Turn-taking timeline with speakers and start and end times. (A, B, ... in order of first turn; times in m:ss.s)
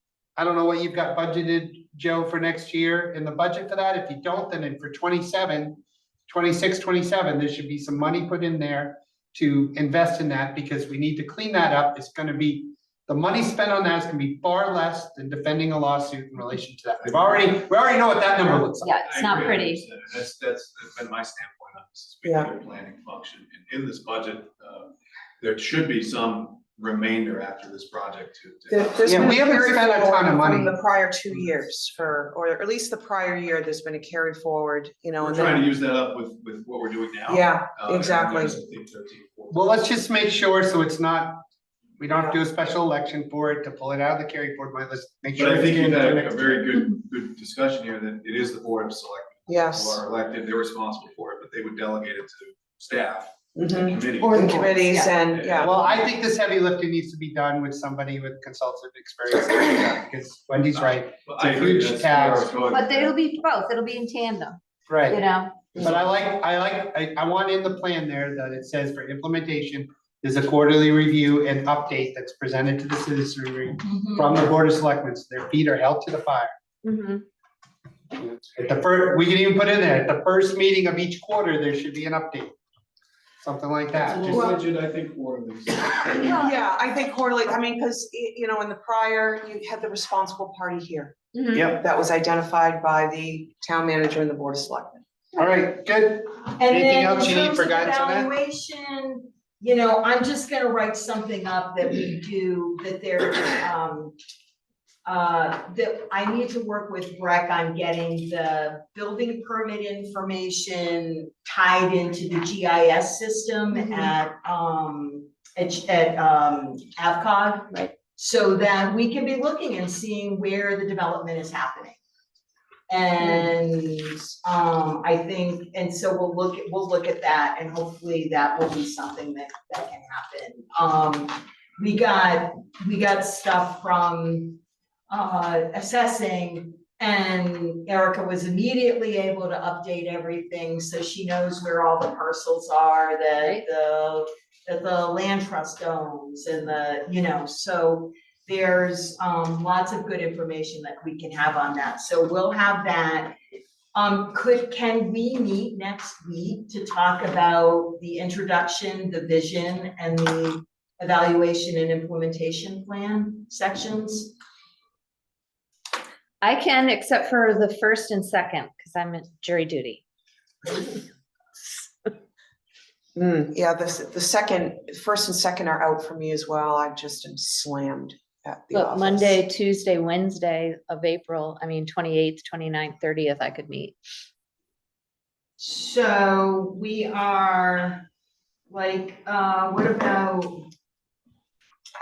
0:00.4-0:19.0 A
0:18.8-0:19.8 B
0:19.0-0:29.2 C
0:22.2-0:22.5 D
0:28.7-0:35.7 D
0:29.0-0:30.8 A
0:35.2-0:39.8 C
0:37.3-0:38.6 D
0:39.5-0:41.4 A
0:42.0-0:46.6 A
0:45.3-0:54.7 C
0:49.5-0:50.0 D
0:53.6-0:55.7 D
0:54.3-0:55.1 B
0:55.2-0:56.1 C
0:55.6-1:02.6 A
1:01.2-1:03.1 C
1:02.7-1:05.6 B
1:04.9-1:05.2 A
1:05.8-1:16.5 A
1:13.8-1:14.4 E
1:16.8-1:17.2 B
1:18.2-1:22.5 A
1:23.4-1:24.4 A
1:24.0-1:26.5 C
1:24.3-1:24.6 D
1:26.2-1:26.5 B
1:26.2-1:35.0 D
1:31.3-1:31.7 B
1:35.4-1:38.3 A
1:36.6-1:44.2 E
1:45.0-2:02.0 E
1:53.7-1:54.1 B
2:02.9-2:33.4 E
2:03.2-2:03.4 B
2:23.4-2:23.6 B
2:33.9-2:44.3 E
2:46.4-2:50.0 B
2:50.7-2:51.0 B
2:53.2-2:59.4 D
2:58.7-3:04.0 B
3:05.6-3:08.0 E
3:08.7-3:10.7 E